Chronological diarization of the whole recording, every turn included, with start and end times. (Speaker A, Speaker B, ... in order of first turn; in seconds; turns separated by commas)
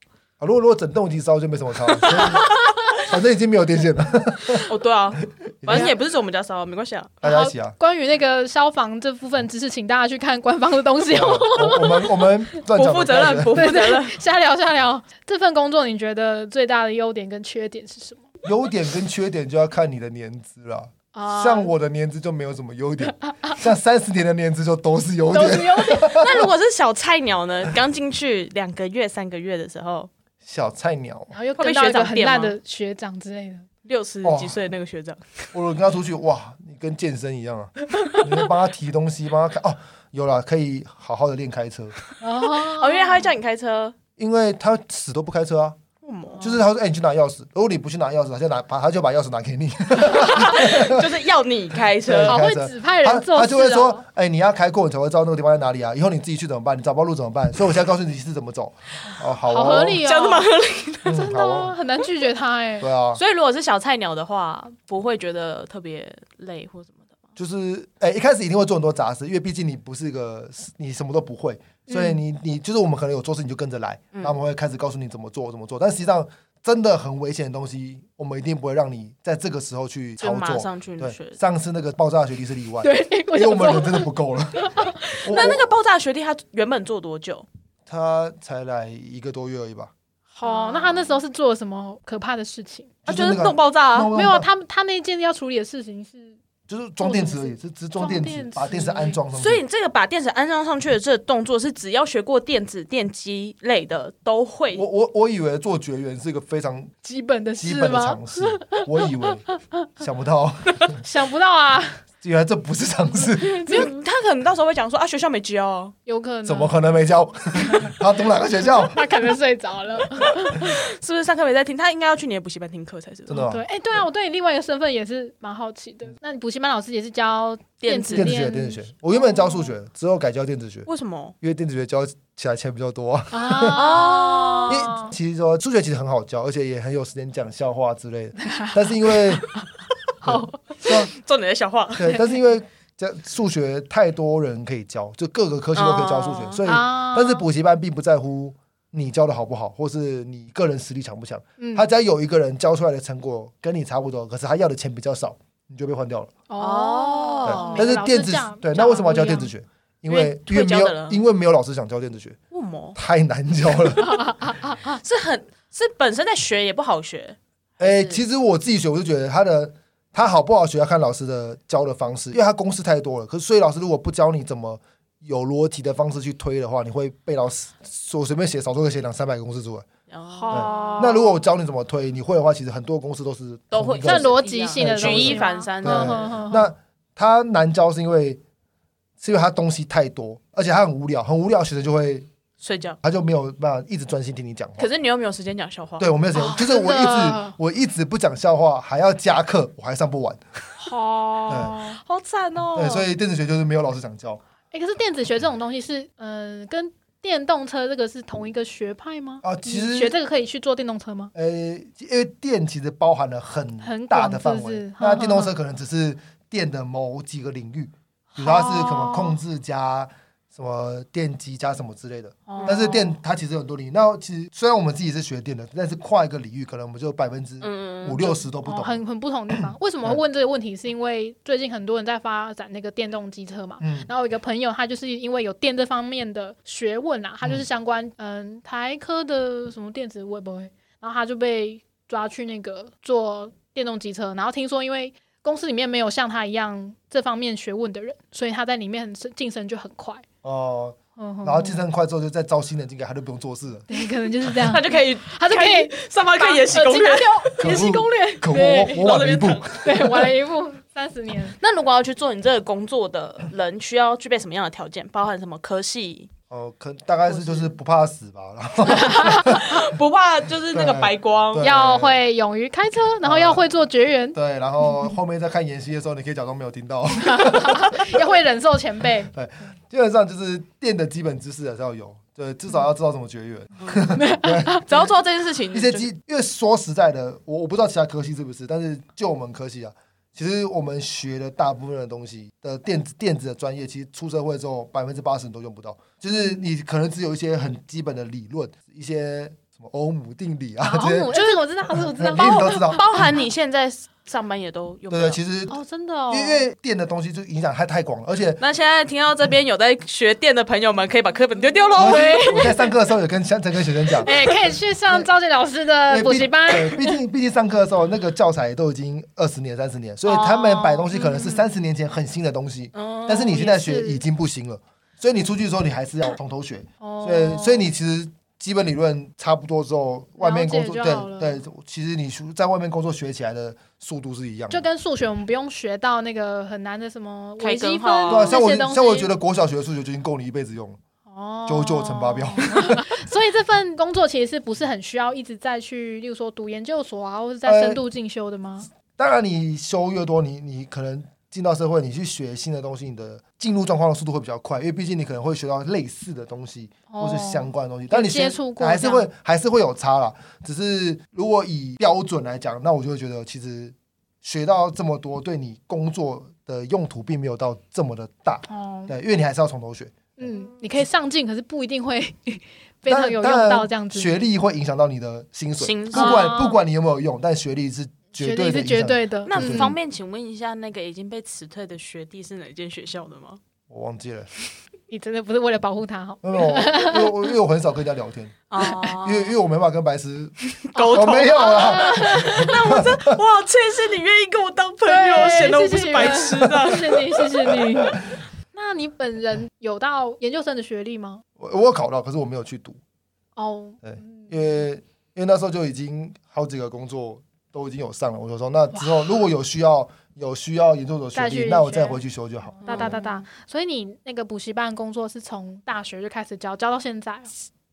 Speaker A: 0.4-4.7, Speaker B: 1.9-2.6, Speaker B: 4.6-7.2, Speaker A: 5.6-5.9, Speaker A: 7.2-7.7, Speaker C: 7.2-12.2, Speaker A: 11.1-13.7, Speaker B: 12.7-14.2, Speaker C: 13.5-18.3, Speaker A: 18.4-26.5, Speaker C: 21.1-21.7, Speaker C: 25.3-26.2, Speaker B: 26.1-30.1, Speaker A: 30.4-31.3, Speaker C: 31.3-33.7, Speaker B: 31.6-32.5, Speaker B: 33.8-35.5, Speaker A: 34.2-34.6, Speaker A: 35.5-42.0, Speaker C: 42.2-43.2, Speaker B: 42.5-44.0, Speaker A: 44.2-45.8, Speaker B: 46.0-46.5, Speaker A: 46.4-51.1, Speaker B: 50.2-52.4, Speaker A: 52.0-60.0, Speaker C: 52.2-54.0, Speaker C: 59.4-60.5, Speaker B: 60.0-61.2, Speaker A: 61.0-61.8, Speaker C: 61.0-62.9, Speaker A: 62.8-63.2, Speaker B: 63.1-67.1, Speaker A: 67.4-84.7, Speaker C: 71.9-72.2, Speaker B: 80.2-81.4, Speaker C: 82.8-85.2, Speaker B: 85.1-87.5, Speaker A: 85.2-85.7, Speaker A: 87.9-89.9, Speaker C: 90.3-92.9, Speaker B: 90.4-91.2, Speaker B: 93.0-94.1, Speaker A: 93.0-94.5, Speaker C: 94.1-96.4, Speaker A: 96.7-99.6, Speaker C: 97.0-99.2, Speaker B: 99.3-104.8, Speaker A: 104.7-106.9, Speaker C: 107.0-109.6, Speaker A: 107.6-109.5, Speaker A: 110.0-111.0, Speaker C: 110.9-112.0, Speaker A: 112.2-113.9, Speaker B: 113.6-115.9, Speaker C: 113.6-113.9, Speaker C: 116.0-116.7, Speaker A: 116.4-119.1, Speaker C: 117.7-117.9, Speaker C: 118.7-120.8, Speaker B: 120.5-123.4, Speaker A: 123.3-123.6, Speaker C: 123.3-129.7, Speaker B: 127.8-128.3, Speaker A: 128.1-130.9, Speaker B: 130.9-131.3, Speaker A: 131.4-134.0, Speaker C: 133.3-135.1, Speaker B: 133.7-134.9, Speaker A: 134.7-139.5, Speaker C: 138.4-139.6, Speaker A: 140.2-141.1, Speaker C: 140.2-140.6, Speaker B: 140.8-142.2, Speaker A: 141.9-156.3, Speaker B: 145.7-146.6, Speaker C: 146.6-147.4, Speaker C: 151.6-151.9, Speaker C: 156.5-159.5, Speaker B: 156.6-157.9, Speaker A: 157.4-162.4, Speaker B: 160.1-161.2, Speaker B: 162.5-163.0, Speaker A: 162.9-164.1, Speaker C: 164.0-164.9, Speaker B: 164.8-168.2, Speaker A: 167.8-179.8, Speaker B: 180.1-181.2, Speaker C: 180.3-181.4, Speaker A: 180.5-188.4, Speaker B: 183.7-186.3, Speaker C: 184.0-186.7, Speaker A: 189.2-192.3, Speaker B: 192.6-193.0, Speaker A: 193.0-194.9, Speaker B: 194.8-196.1, Speaker A: 196.0-200.4, Speaker C: 196.3-197.6, Speaker C: 200.8-202.0, Speaker A: 201.5-201.8, Speaker B: 201.9-203.1, Speaker A: 202.7-204.4, Speaker C: 204.7-211.3, Speaker A: 209.4-210.2, Speaker A: 211.3-229.0, Speaker C: 213.8-215.5, Speaker C: 218.3-219.4, Speaker C: 222.5-223.1, Speaker B: 222.5-223.0, Speaker B: 227.6-228.4, Speaker C: 228.6-250.2, Speaker A: 229.5-230.2, Speaker A: 233.8-234.1, Speaker A: 250.4-254.5, Speaker C: 251.2-251.8, Speaker C: 253.9-259.0, Speaker B: 254.5-257.7, Speaker A: 257.6-260.2, Speaker B: 258.8-260.2, Speaker C: 259.8-261.6, Speaker B: 261.6-266.3, Speaker A: 266.5-269.8, Speaker B: 267.3-267.7, Speaker C: 268.9-269.6, Speaker B: 268.9-271.6, Speaker A: 270.7-272.2, Speaker C: 271.6-274.4, Speaker A: 273.2-273.6, Speaker A: 274.3-278.1, Speaker C: 277.2-279.3, Speaker A: 279.3-285.1, Speaker C: 284.1-284.9, Speaker B: 284.9-286.1, Speaker A: 285.7-301.4, Speaker C: 300.8-303.0, Speaker A: 301.9-303.1, Speaker B: 302.4-305.4, Speaker A: 305.1-305.8, Speaker C: 305.7-306.6, Speaker A: 306.3-308.6, Speaker B: 308.6-312.7, Speaker C: 311.9-312.7, Speaker A: 311.9-314.3, Speaker C: 314.2-317.1, Speaker A: 316.1-334.8, Speaker B: 320.3-321.1, Speaker C: 321.0-321.6, Speaker B: 322.9-323.6, Speaker C: 323.4-324.2, Speaker C: 327.0-327.9, Speaker C: 330.4-331.6, Speaker C: 334.7-339.3, Speaker B: 337.6-338.6, Speaker A: 338.3-341.0, Speaker C: 341.3-348.9, Speaker A: 341.7-343.1, Speaker A: 347.6-348.0, Speaker A: 349.1-370.5, Speaker C: 357.1-359.3, Speaker C: 368.7-369.1, Speaker C: 370.4-374.3, Speaker A: 373.1-379.9, Speaker B: 375.8-376.5, Speaker C: 376.1-376.8, Speaker C: 378.4-379.9, Speaker B: 379.5-383.6, Speaker A: 383.9-384.5, Speaker C: 385.1-387.5, Speaker A: 386.4-388.6, Speaker B: 388.7-389.6, Speaker C: 388.8-389.1, Speaker A: 389.1-390.5, Speaker B: 390.8-397.8, Speaker C: 390.9-392.8, Speaker A: 391.1-393.4, Speaker C: 395.1-401.4, Speaker A: 397.7-398.2, Speaker A: 401.6-403.0, Speaker C: 403.6-404.7, Speaker A: 404.0-413.2, Speaker C: 411.3-412.2, Speaker C: 412.8-417.5, Speaker B: 412.9-413.4